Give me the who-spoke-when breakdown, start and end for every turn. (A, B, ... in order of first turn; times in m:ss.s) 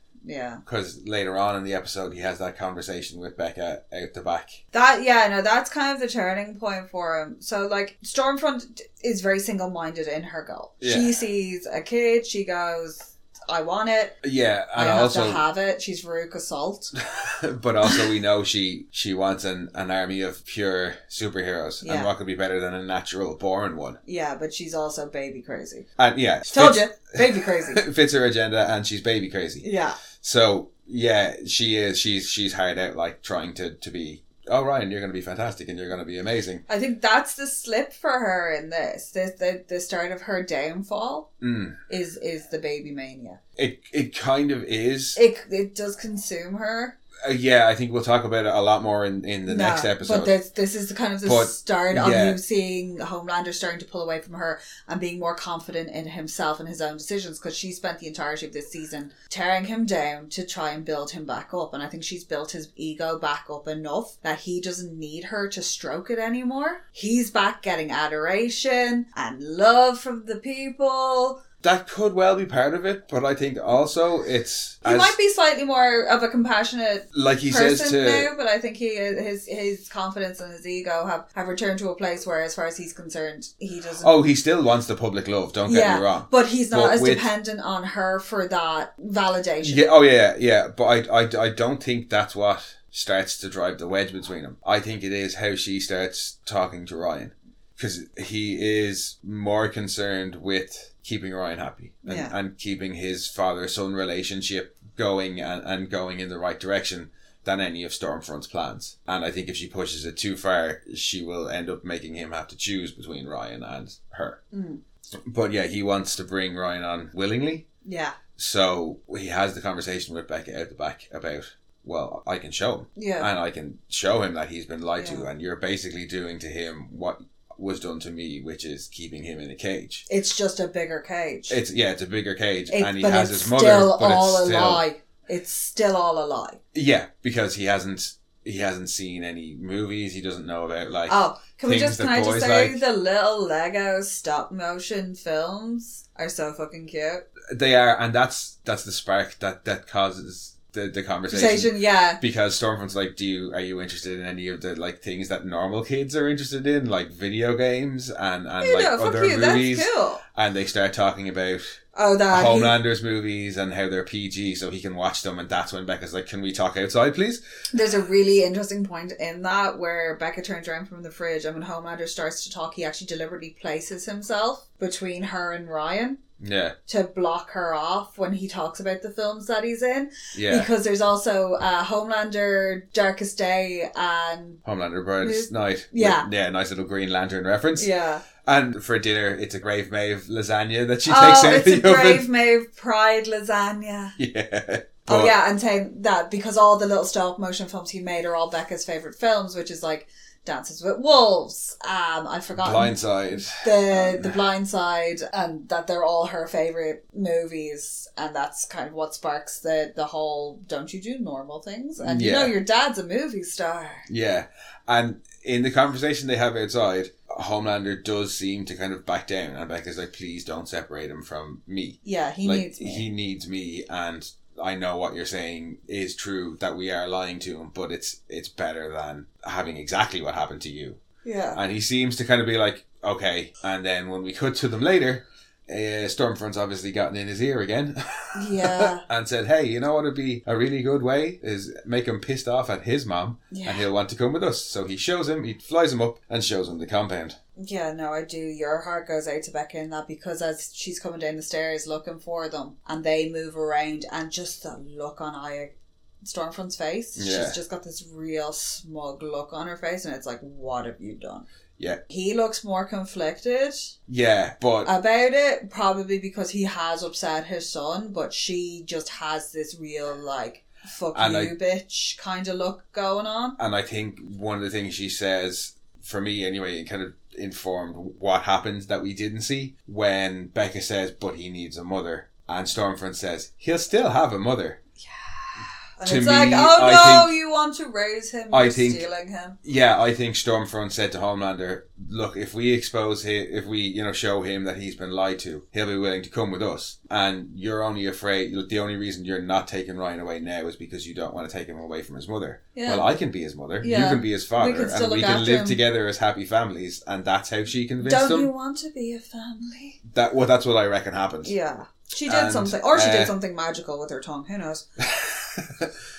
0:00.2-0:00.6 A
0:00.6-0:04.6 B
0:04.7-0:14.2 A
0:10.8-0:11.1 B
0:14.2-0:15.4 B
0:14.7-0:16.9 A
0:17.1-0:24.0 B
0:21.8-0:22.1 A
0:24.0-0:25.9 A
0:26.0-0:29.6 B
0:26.5-0:27.8 A
0:29.6-0:30.0 A
0:30.2-0:36.6 B
0:36.7-0:41.3 A
0:41.4-0:41.8 B
0:41.9-0:43.4 A
0:43.6-0:45.2 B
0:45.2-0:47.0 A
0:47.2-0:50.3 B
0:49.4-1:11.4 A
0:51.2-0:52.4 B
1:11.6-1:15.2 B
1:14.8-1:24.1 A
1:17.1-1:18.3 B
1:24.0-1:27.2 B
1:25.6-1:29.8 A
1:29.6-1:54.4 B
1:42.0-1:42.3 A
1:54.5-1:54.8 A
1:55.2-1:57.6 B
1:57.8-1:58.2 A
1:58.4-2:10.0 B
2:03.0-2:03.3 A
2:05.0-2:05.3 A
2:10.1-2:11.6 A
2:11.5-2:14.8 B
2:12.7-2:16.6 A
2:16.7-2:22.8 B
2:21.1-2:27.2 A
2:27.5-2:41.8 B
2:31.3-2:32.2 A
2:38.6-2:40.2 A
2:41.9-2:42.8 A
2:42.3-2:47.4 B
2:47.7-2:56.2 A
2:56.4-2:56.8 B
2:56.9-3:04.6 A
3:00.3-3:00.7 B
3:04.6-3:07.9 B
3:05.2-3:06.3 A
3:07.8-3:08.2 A
3:08.4-3:12.2 B
3:11.0-3:14.2 A
3:14.2-3:15.3 B
3:15.1-3:34.1 A
3:22.6-3:24.4 B
3:32.0-3:32.5 B
3:34.1-3:51.0 B
3:42.0-3:43.0 A
3:51.2-3:51.6 A
3:51.5-4:07.4 B
3:58.3-3:59.0 A
4:03.5-4:03.9 A
4:07.6-4:21.4 A
4:17.2-4:17.6 B
4:22.1-4:23.9 A
4:24.1-4:24.9 B
4:24.8-4:33.6 A
4:31.1-4:31.5 B
4:33.6-4:44.8 B
4:45.0-4:49.6 A
4:46.0-4:47.3 B
4:48.5-4:49.0 B
4:49.6-5:08.5 B
5:02.7-5:03.1 A
5:03.8-5:05.8 A
5:08.0-5:10.0 A
5:10.1-5:11.5 B
5:11.4-5:14.8 A
5:12.2-5:13.3 B
5:15.0-5:15.9 B